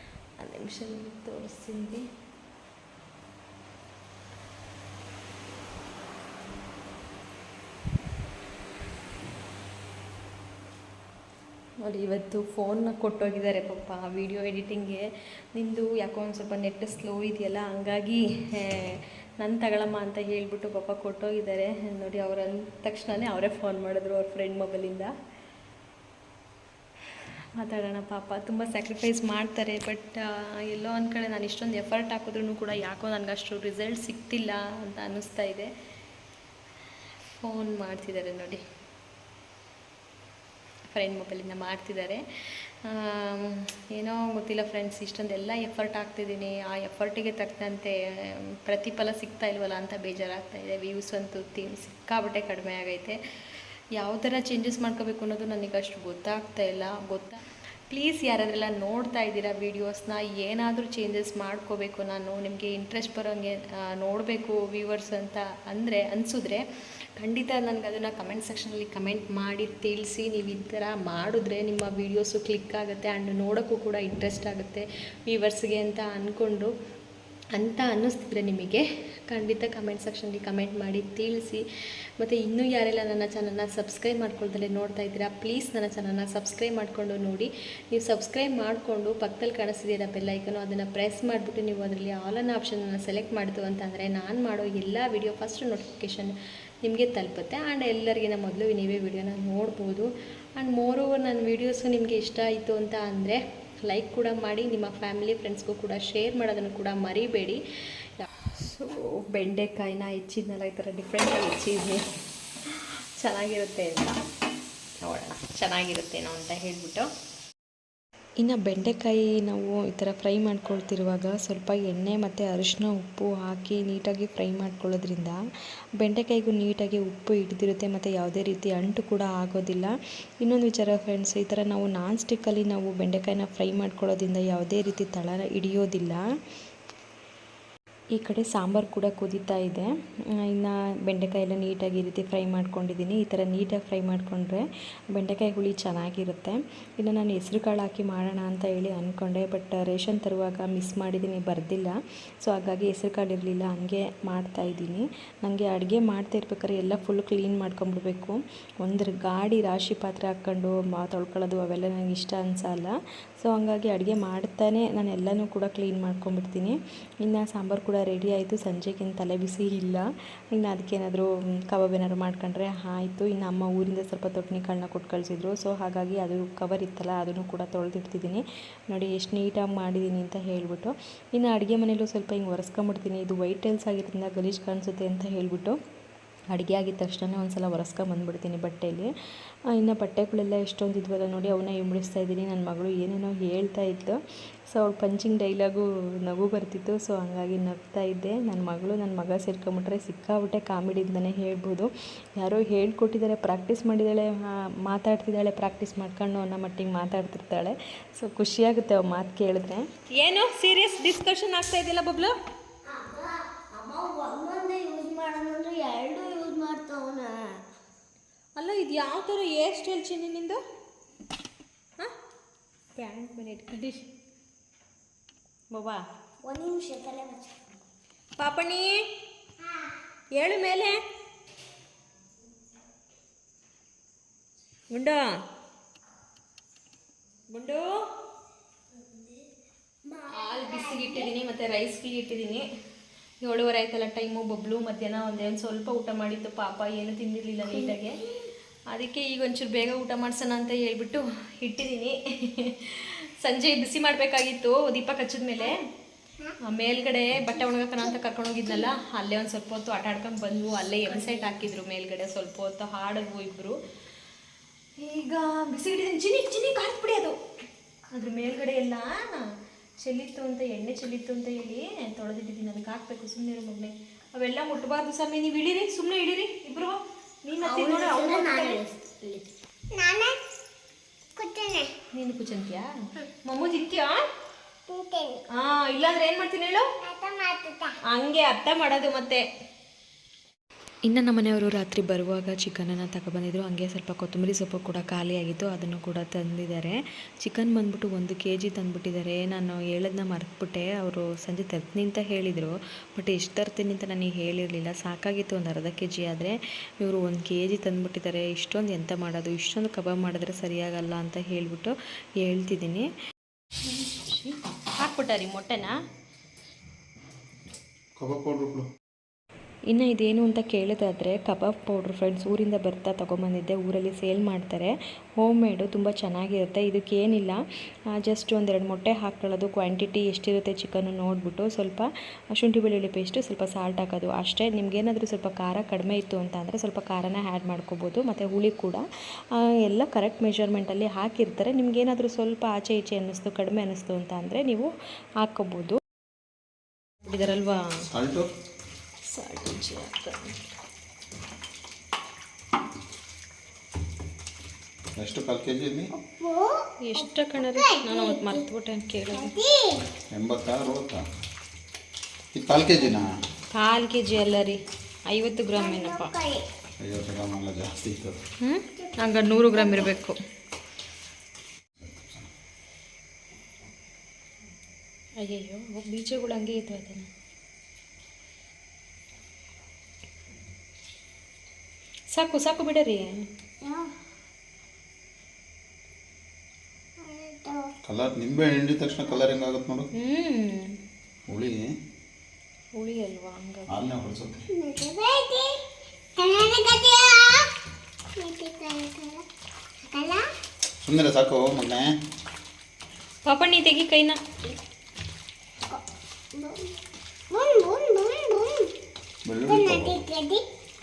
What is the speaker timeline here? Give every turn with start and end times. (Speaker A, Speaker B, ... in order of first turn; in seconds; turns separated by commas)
Speaker A: 0.4-2.0, Speaker A: 11.8-15.0, Speaker A: 15.5-25.1, Speaker A: 27.6-35.7, Speaker A: 37.4-38.6, Speaker A: 40.9-42.2, Speaker A: 42.8-53.2, Speaker A: 54.0-66.6, Speaker A: 67.2-76.7, Speaker A: 77.5-81.6, Speaker A: 82.2-107.6, Speaker A: 108.2-112.0, Speaker A: 112.7-114.2, Speaker A: 115.0-117.1, Speaker A: 118.4-125.4, Speaker A: 126.0-136.2, Speaker A: 138.1-139.9, Speaker A: 140.4-185.8, Speaker A: 186.5-189.1, Speaker A: 189.7-194.2, Speaker A: 194.7-212.3, Speaker B: 212.8-217.6, Speaker A: 218.6-220.6, Speaker A: 222.9-224.0, Speaker A: 225.7-226.0, Speaker B: 226.4-227.6, Speaker A: 228.4-229.0, Speaker A: 230.3-231.0, Speaker A: 234.9-235.2, Speaker A: 237.5-237.9, Speaker B: 240.0-241.3, Speaker A: 240.3-242.7, Speaker A: 243.4-248.2, Speaker B: 247.7-248.4, Speaker A: 248.9-255.8, Speaker A: 256.6-263.8, Speaker A: 265.0-267.4, Speaker A: 268.1-269.4, Speaker A: 270.0-278.8, Speaker B: 277.6-280.4, Speaker B: 281.4-281.9, Speaker A: 282.1-282.9, Speaker A: 283.4-284.2, Speaker B: 284.9-285.4, Speaker A: 285.5-286.9, Speaker B: 287.0-287.9, Speaker A: 288.1-289.4, Speaker A: 291.1-313.1, Speaker A: 313.8-315.9, Speaker C: 318.2-318.9, Speaker A: 319.9-327.6, Speaker A: 328.1-339.1, Speaker A: 339.6-344.9, Speaker A: 345.4-346.0, Speaker A: 347.2-348.0, Speaker C: 348.1-348.5, Speaker A: 349.3-350.5, Speaker C: 355.1-356.1, Speaker B: 356.1-358.6, Speaker A: 357.0-359.5, Speaker B: 359.3-360.1, Speaker C: 360.3-361.2, Speaker C: 362.5-363.3, Speaker A: 363.7-366.3, Speaker B: 365.7-366.6, Speaker C: 367.0-368.4, Speaker A: 368.6-370.4, Speaker B: 368.9-370.1, Speaker C: 372.0-372.5, Speaker A: 375.4-377.3, Speaker A: 382.3-383.4, Speaker B: 383.8-384.1, Speaker B: 387.2-387.9, Speaker C: 388.1-390.1, Speaker A: 390.1-390.9, Speaker C: 391.5-391.9, Speaker A: 392.9-393.9, Speaker C: 393.9-394.7, Speaker B: 394.7-395.8, Speaker B: 396.4-397.7, Speaker B: 398.4-399.4, Speaker B: 400.1-400.5, Speaker C: 401.0-402.1, Speaker A: 403.4-404.4, Speaker B: 406.5-406.9, Speaker B: 407.5-408.9, Speaker C: 409.4-410.2, Speaker B: 409.7-410.6